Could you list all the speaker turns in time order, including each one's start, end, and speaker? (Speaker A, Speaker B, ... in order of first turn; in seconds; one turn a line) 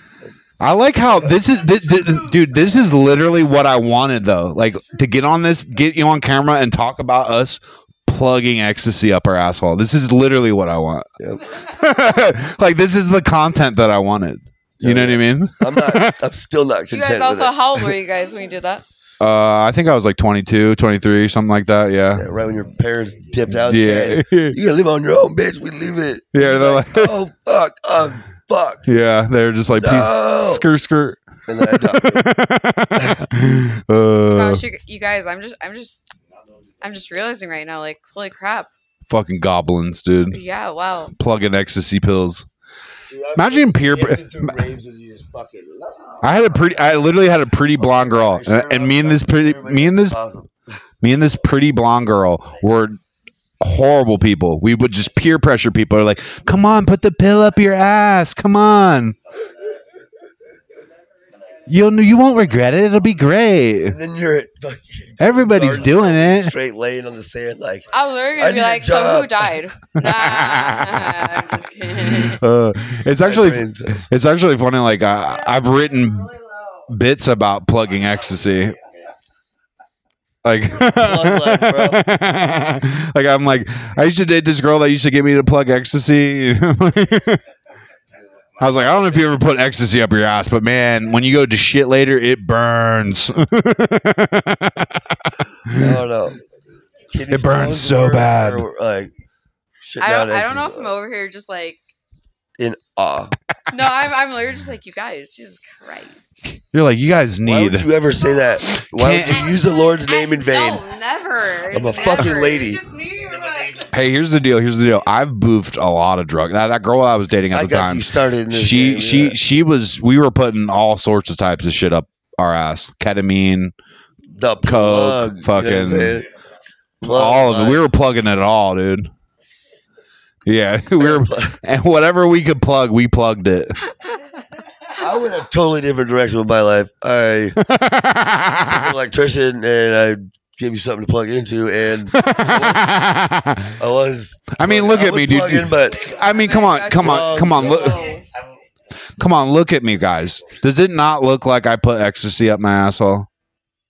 Speaker A: 0.6-11.1
Speaker B: 1.1-1.3
Speaker C: 1.6-2.4
Speaker B: 11.2-11.6
Speaker A: 11.6-16.2
Speaker B: 14.8-17.5
Speaker D: 16.9-18.8
Speaker A: 19.2-22.3
Speaker B: 22.1-28.9
Speaker A: 23.5-24.6
Speaker A: 26.3-27.2
Speaker A: 28.9-34.6
Speaker B: 29.7-30.7
Speaker B: 31.5-32.2
Speaker B: 33.0-33.2
Speaker D: 34.3-36.0
Speaker D: 36.8-38.7
Speaker A: 39.1-40.4
Speaker D: 40.3-41.1
Speaker A: 41.1-42.5
Speaker B: 43.1-47.1
Speaker A: 43.4-44.6
Speaker A: 46.2-50.2
Speaker B: 47.8-50.5
Speaker A: 51.0-53.0
Speaker A: 53.6-59.2
Speaker A: 61.7-64.0
Speaker B: 63.8-69.6
Speaker A: 65.2-66.5
Speaker D: 67.9-72.4
Speaker A: 70.0-71.3
Speaker A: 72.1-76.3
Speaker B: 73.2-74.1
Speaker C: 75.3-76.9
Speaker A: 76.9-78.8
Speaker A: 80.4-87.4
Speaker B: 80.8-82.0
Speaker A: 88.6-96.0
Speaker B: 95.7-96.4
Speaker B: 97.1-99.1
Speaker A: 97.3-98.7
Speaker B: 99.8-100.9
Speaker D: 100.0-101.8
Speaker B: 102.6-103.3
Speaker D: 103.7-106.3
Speaker A: 106.5-107.9
Speaker B: 107.5-110.8
Speaker C: 108.2-108.6
Speaker A: 108.8-109.6
Speaker C: 109.3-110.0
Speaker D: 110.0-112.7
Speaker B: 111.7-112.8
Speaker C: 111.8-114.0
Speaker A: 113.9-123.7
Speaker B: 117.5-119.4
Speaker B: 124.3-126.3
Speaker A: 124.6-126.3
Speaker B: 127.0-127.8
Speaker A: 127.0-129.1
Speaker A: 130.4-133.8
Speaker B: 131.0-131.6
Speaker B: 135.0-137.6
Speaker A: 137.6-138.9
Speaker B: 138.6-142.9
Speaker A: 142.1-143.8
Speaker B: 143.8-146.1
Speaker A: 144.6-148.1
Speaker D: 146.1-148.3
Speaker B: 146.9-148.2
Speaker C: 147.7-148.3
Speaker A: 149.2-153.3